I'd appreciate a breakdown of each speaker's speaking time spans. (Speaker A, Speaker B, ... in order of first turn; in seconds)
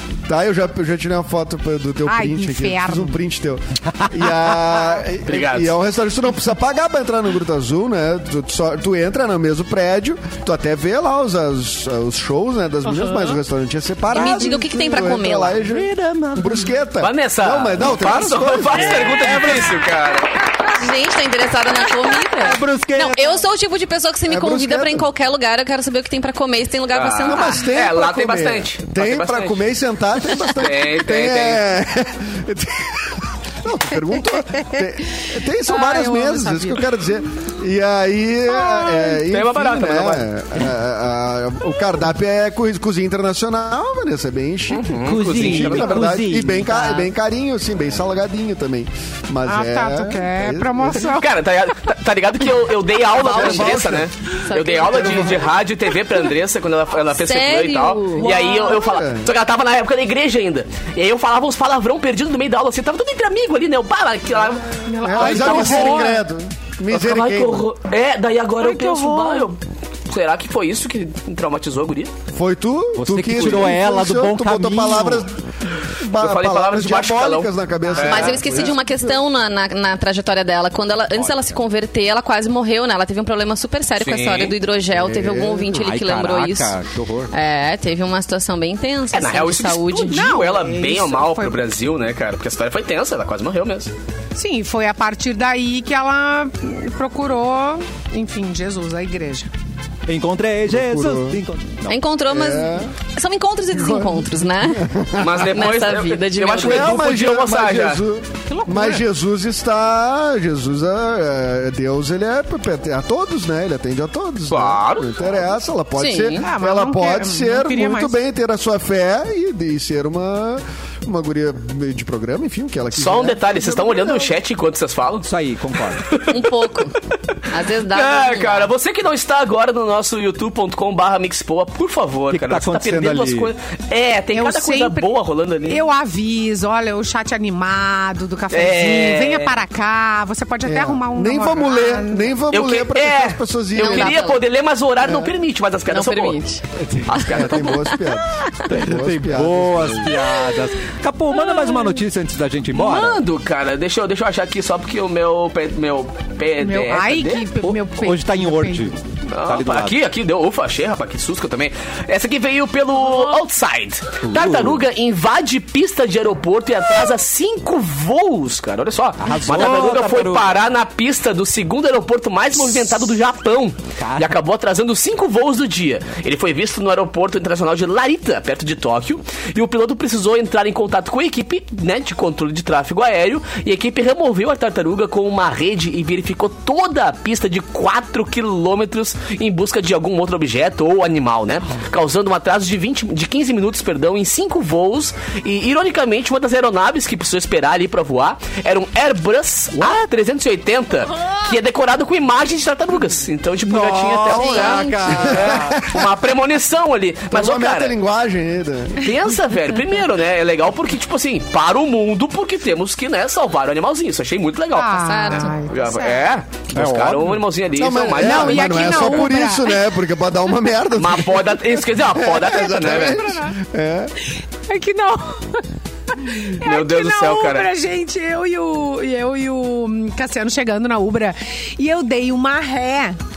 Speaker A: 0.3-19.7, 24.3-25.1, 27.3-51.0, 53.1-54.1, 54.8-55.5, 58.6-59.3, 65.0-67.7, 72.3-75.4, 76.0-79.2, 84.9-85.8, 100.7-101.4, 102.3-102.9, 103.7-105.4, 106.6-124.3, 140.7-144.2, 145.0-145.3, 147.3-150.3, 205.2-206.0, 207.3-209.1, 217.7-224.1
Speaker B: 2.0-3.2, 35.6-36.9, 49.5-51.3, 58.2-58.8, 64.8-66.2, 68.6-69.5, 90.1-91.7, 94.3-99.5, 108.5-109.0, 116.3-118.2, 134.3-135.1, 135.7-142.4, 156.6-158.9, 214.7-216.2, 218.2-219.8, 222.8-223.6, 224.7-233.2
Speaker C: 5.2-5.8, 17.0-20.4, 26.9-29.6, 30.5-31.7, 38.7-40.3, 44.7-46.0, 51.1-66.1, 66.9-72.1, 76.2-78.7, 84.0-84.5, 89.1-93.9, 105.2-108.0, 114.5-115.4, 122.9-126.4, 127.9-135.8, 138.5-139.6, 142.5-146.4, 147.1-147.9, 152.7-157.5, 159.3-208.0, 209.0-219.3, 220.9-223.3, 226.6-227.7
Speaker D: 14.1-15.6, 20.7-27.6, 53.2-55.4, 57.1-58.5, 77.9-86.8, 87.3-90.3, 101.9-107.0, 116.0-116.4, 126.3-126.9, 127.5-128.7, 143.8-144.4, 145.9-146.6, 148.4-148.7, 204.3-205.2, 215.0-215.5
Speaker E: 14.1-14.6, 15.6-16.8, 22.4-23.4, 45.0-47.0, 73.0-75.3, 81.1-81.6, 85.8-87.3, 100.1-102.0, 125.2-126.1, 132.3-133.5, 148.7-153.2, 157.6-159.9, 164.2-164.8, 169.2-170.6, 174.0-174.3, 203.6-205.8, 216.7-217.4